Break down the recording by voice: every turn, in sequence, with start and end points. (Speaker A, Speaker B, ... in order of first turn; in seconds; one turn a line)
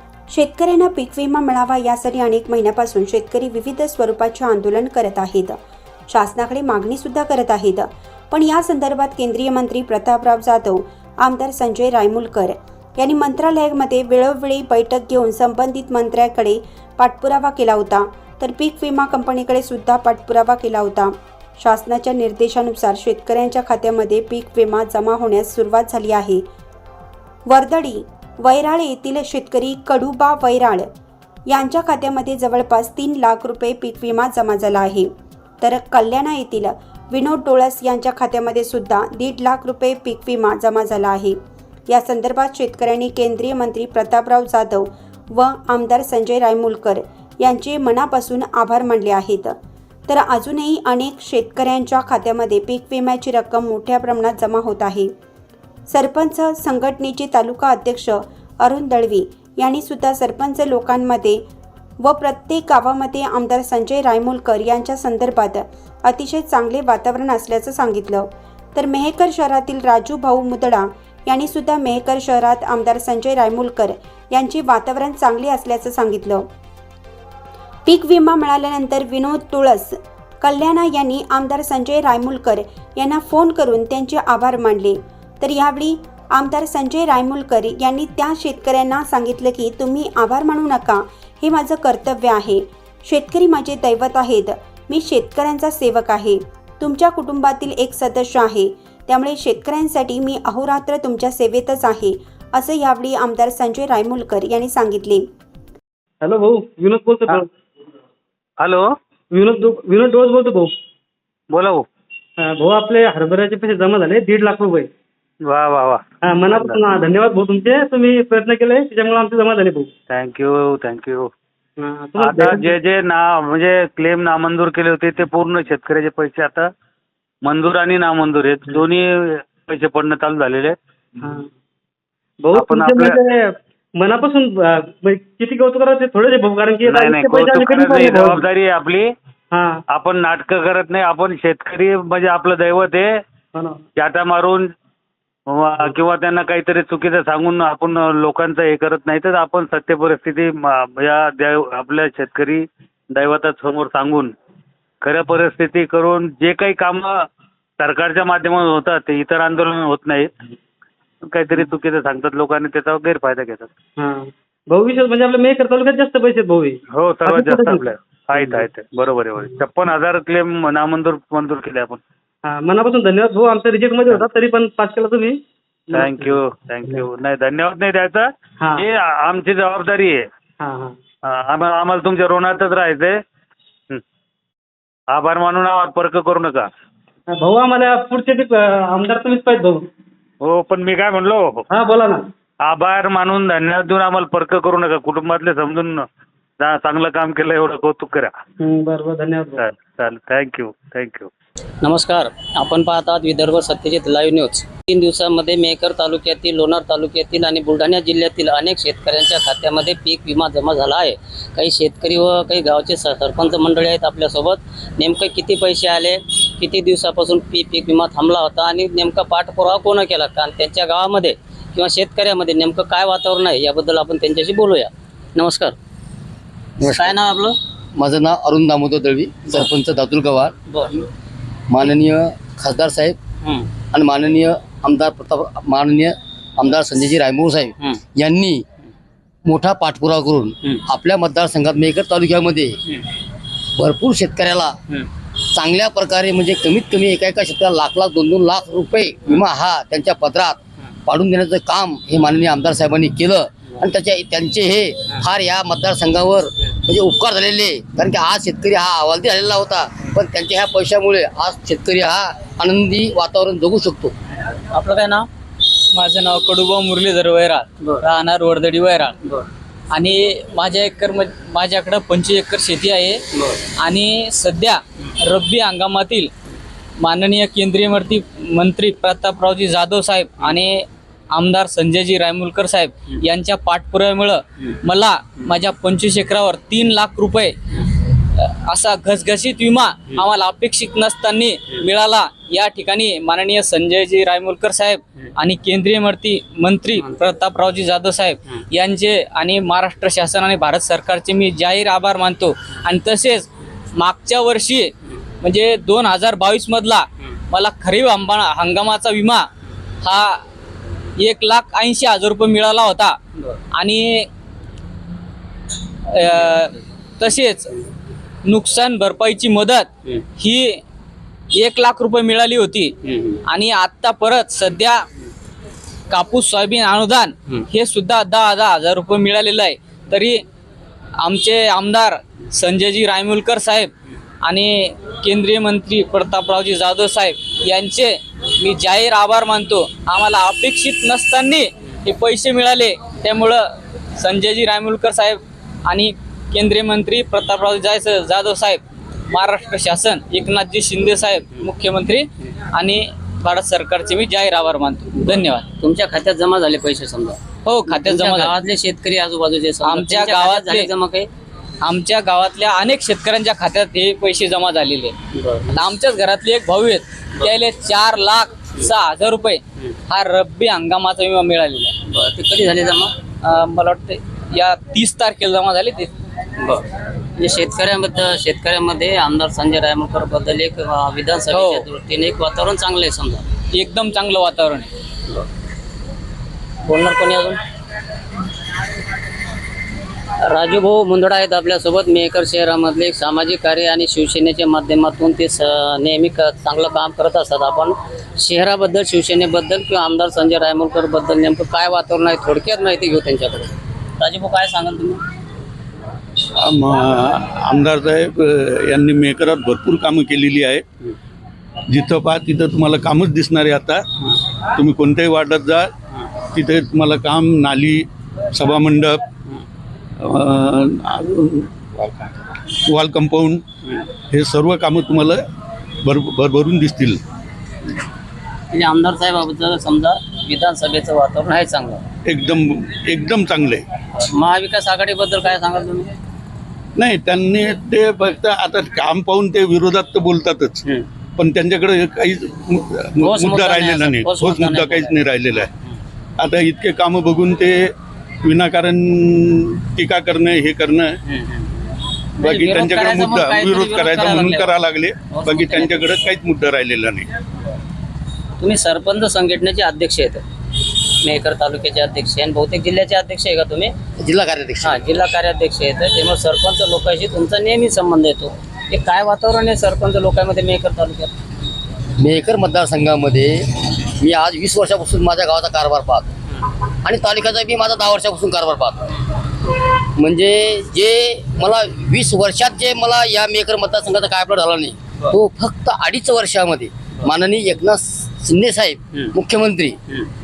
Speaker A: 0.3-5.6
Speaker A: 6.1-26.4
Speaker A: 27.5-30.9
Speaker A: 31.5-41.4
Speaker A: 41.9-49.6
Speaker A: 50.1-55.1
Speaker A: 55.9-61.4
Speaker A: 62.0-76.5
Speaker A: 77.8-105.3
Speaker B: 106.2-107.5
Speaker C: 108.6-108.9
Speaker B: 109.3-110.7
Speaker C: 111.5-111.9
Speaker B: 112.4-114.9
Speaker C: 115.5-116.9
Speaker B: 116.3-119.9
Speaker C: 120.1-121.3
Speaker B: 121.8-122.7
Speaker C: 122.2-126.7
Speaker C: 127.5-130.8
Speaker B: 131.2-131.5
Speaker B: 132.4-138.4
Speaker C: 132.5-133.2
Speaker C: 136.8-139.1
Speaker B: 139.5-139.8
Speaker C: 139.9-143.2
Speaker B: 143.6-143.8
Speaker C: 144.0-144.7
Speaker C: 145.5-154.3
Speaker C: 155.0-157.1
Speaker C: 157.8-160.3
Speaker C: 161.3-163.7
Speaker B: 164.0-167.8
Speaker C: 166.9-172.0
Speaker B: 168.3-168.7
Speaker B: 172.4-177.0
Speaker C: 175.9-180.2
Speaker B: 180.6-180.9
Speaker C: 181.3-183.2
Speaker C: 185.1-186.7
Speaker B: 187.3-189.8
Speaker C: 190.4-191.7
Speaker B: 191.7-192.2
Speaker C: 192.7-196.1
Speaker C: 196.6-198.3
Speaker B: 198.6-199.6
Speaker C: 199.6-201.3
Speaker D: 201.8-225.8
Speaker E: 226.8-227.2
Speaker D: 226.8-227.6
Speaker E: 228.0-230.5
Speaker D: 230.7-231.1
Speaker E: 231.7-233.2
Speaker D: 233.4-233.7
Speaker E: 233.9-238.7
Speaker E: 239.5-242.8
Speaker E: 243.8-244.8
Speaker E: 245.5-264.1
Speaker D: 264.8-265.3
Speaker F: 265.9-269.2
Speaker F: 269.9-273.2
Speaker F: 273.8-276.3
Speaker F: 277.0-287.6
Speaker F: 288.4-309.5
Speaker F: 310.0-310.4
Speaker F: 311.2-313.2
Speaker F: 313.7-314.3
Speaker F: 316.1-317.7
Speaker F: 318.4-320.8
Speaker F: 321.5-322.9
Speaker D: 323.1-323.4
Speaker F: 323.5-325.1
Speaker F: 326.1-330.4
Speaker F: 331.2-333.9
Speaker F: 334.4-355.7
Speaker D: 355.8-361.3
Speaker F: 357.6-358.6
Speaker F: 359.8-360.9
Speaker F: 361.8-365.1
Speaker D: 365.4-365.8
Speaker F: 365.7-371.9
Speaker D: 372.1-373.1
Speaker F: 373.4-376.1
Speaker D: 376.6-376.9
Speaker D: 377.4-383.5
Speaker F: 381.5-381.9
Speaker F: 383.7-384.9
Speaker D: 386.9-387.6
Speaker D: 390.4-405.2
Speaker G: 406.6-410.8
Speaker G: 411.9-414.1
Speaker G: 414.8-415.9
Speaker G: 416.5-419.2
Speaker G: 420.2-422.3
Speaker G: 422.9-423.6
Speaker G: 424.3-425.4
Speaker G: 426.1-427.2
Speaker D: 428.7-432.0
Speaker G: 432.2-433.8
Speaker D: 434.1-436.1
Speaker G: 437.0-440.9
Speaker G: 441.4-445.7
Speaker D: 443.2-446.0
Speaker G: 446.4-447.9
Speaker G: 448.4-451.2
Speaker D: 451.3-451.7
Speaker G: 452.4-457.3
Speaker D: 452.4-454.7
Speaker D: 455.3-456.2
Speaker D: 458.6-460.4
Speaker D: 461.2-463.9
Speaker E: 464.2-465.0
Speaker D: 464.8-471.3
Speaker E: 472.2-476.3
Speaker E: 477.0-479.1
Speaker E: 480.2-490.0